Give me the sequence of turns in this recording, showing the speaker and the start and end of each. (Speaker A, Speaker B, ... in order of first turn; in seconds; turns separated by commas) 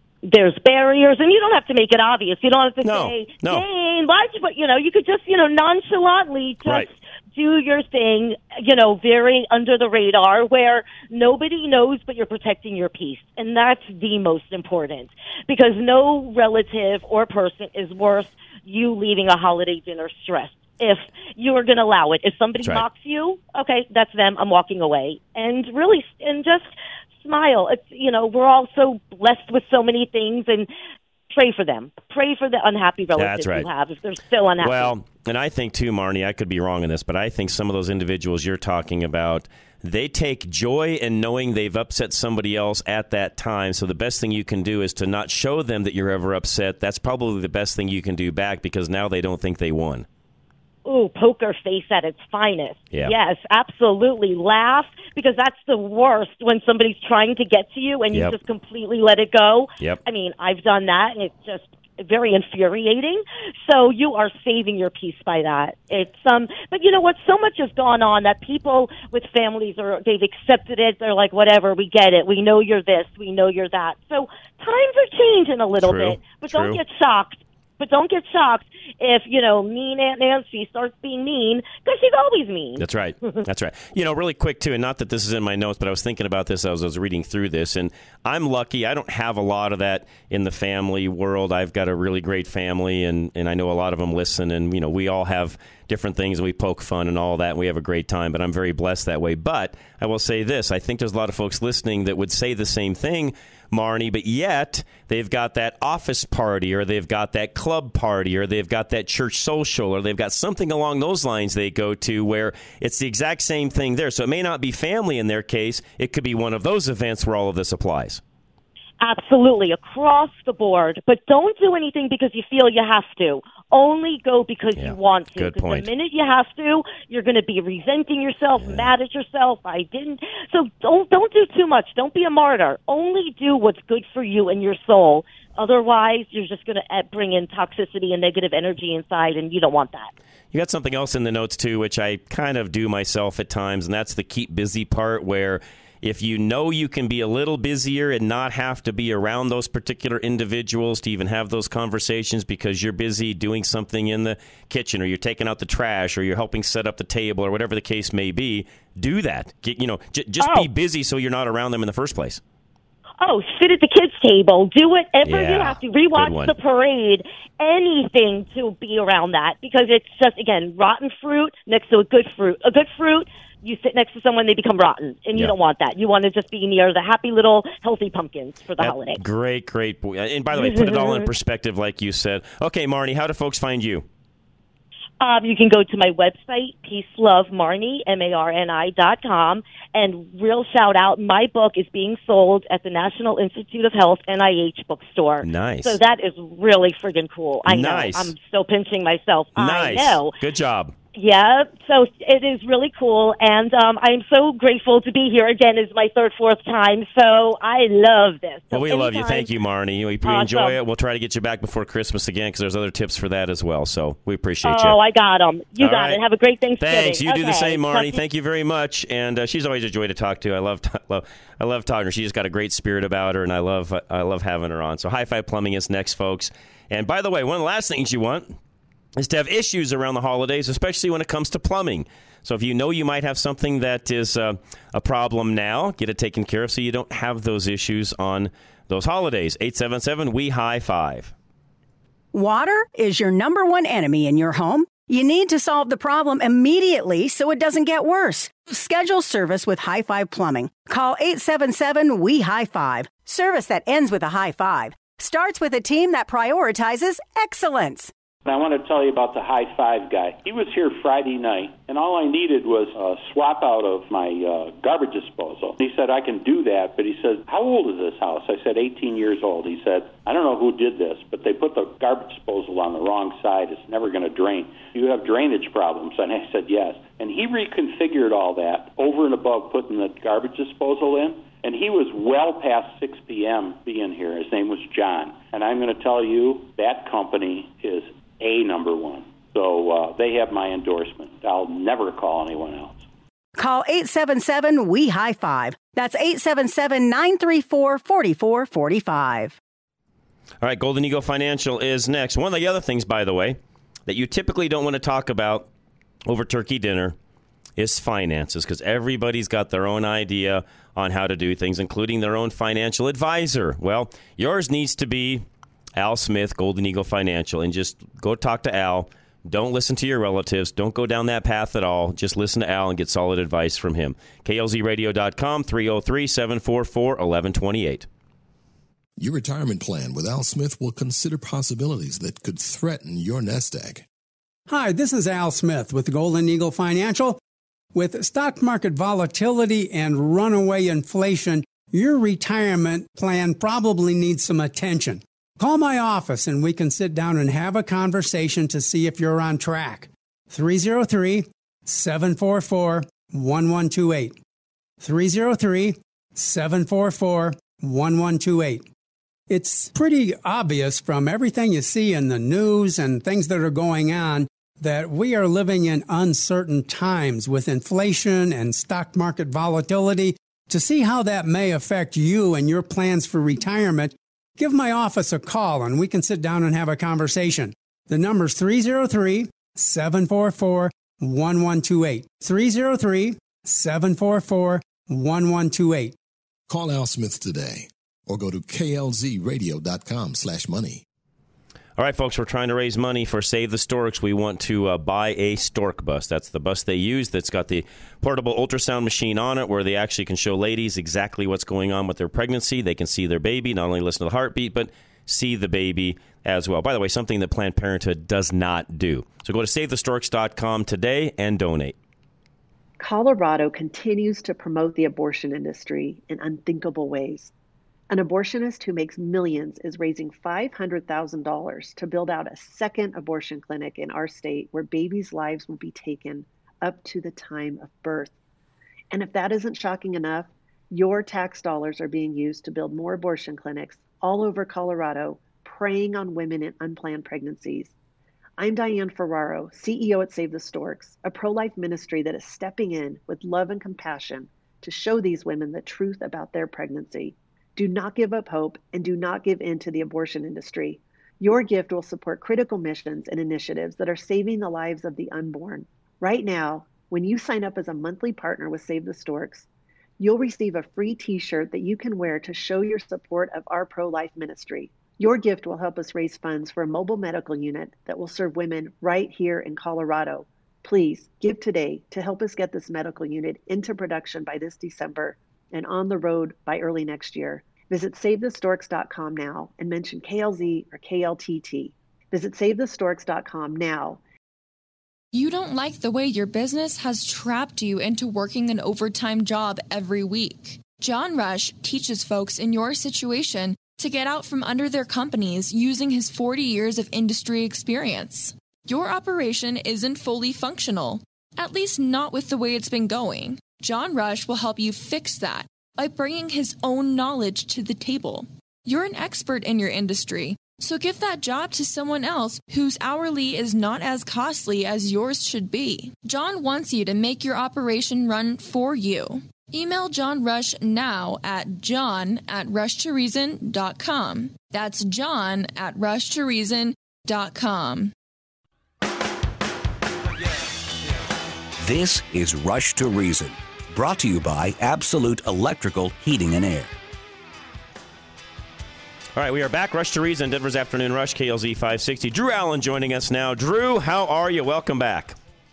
Speaker A: 0.2-30.7, Speaker B: 2.8-3.6, Speaker A: 31.3-34.9, Speaker B: 33.2-33.7, Speaker B: 34.6-50.1, Speaker A: 50.9-82.8, Speaker B: 75.8-76.8, Speaker B: 82.8-118.2, Speaker A: 119.0-140.1, Speaker B: 124.8-125.9, Speaker B: 128.6-128.9, Speaker B: 140.5-162.4, Speaker A: 160.4-160.7, Speaker A: 163.2-179.2, Speaker B: 165.2-166.5, Speaker B: 178.8-184.1, Speaker A: 180.5-181.3, Speaker A: 185.2-200.3, Speaker B: 195.4-196.0, Speaker B: 197.7-198.3, Speaker B: 199.6-200.9, Speaker A: 201.2-209.5, Speaker B: 208.7-215.0, Speaker A: 210.2-210.8, Speaker A: 214.6-218.2, Speaker B: 215.8-216.2, Speaker B: 216.8-228.6, Speaker B: 229.2-241.3, Speaker C: 242.3-258.1, Speaker D: 258.4-293.0, Speaker C: 293.6-299.5, Speaker B: 300.6-305.7, Speaker B: 306.3-307.1, Speaker B: 307.8-315.4, Speaker B: 316.0-328.1, Speaker E: 329.2-334.1, Speaker F: 334.7-337.4, Speaker F: 337.9-354.4, Speaker F: 355.0-358.9, Speaker F: 359.5-386.1, Speaker E: 386.7-391.0, Speaker B: 392.0-411.9, Speaker G: 413.0-417.5, Speaker G: 418.1-428.3, Speaker G: 429.1-437.9, Speaker G: 438.6-459.7, Speaker G: 460.2-484.2, Speaker H: 485.3-528.1, Speaker I: 531.8-536.9, Speaker B: 539.4-545.4